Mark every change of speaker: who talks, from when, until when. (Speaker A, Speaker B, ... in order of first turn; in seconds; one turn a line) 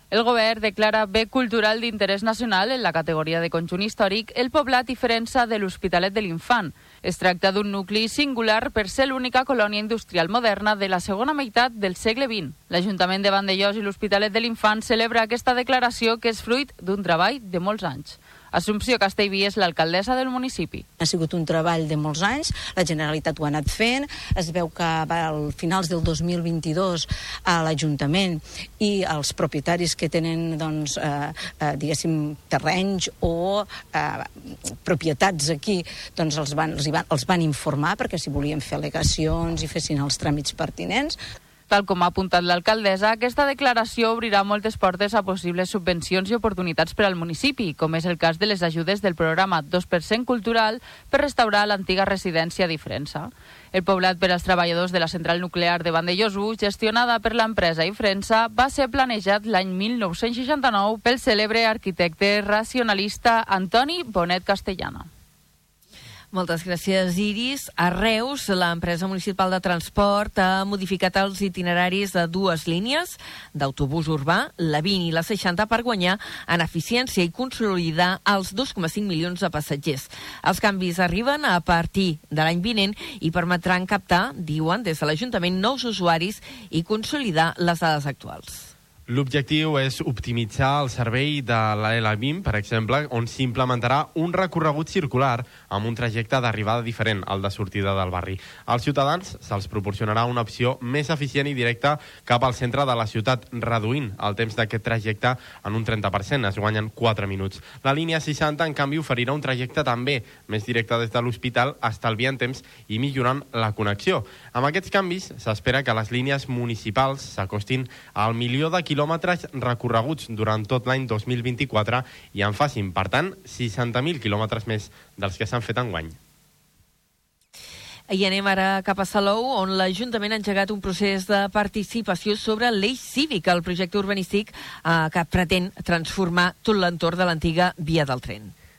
Speaker A: 0.1-20.8
Speaker B: 21.0-41.2
Speaker A: 41.7-65.1
Speaker C: 66.3-88.7
Speaker D: 89.1-126.2
Speaker C: 128.1-138.5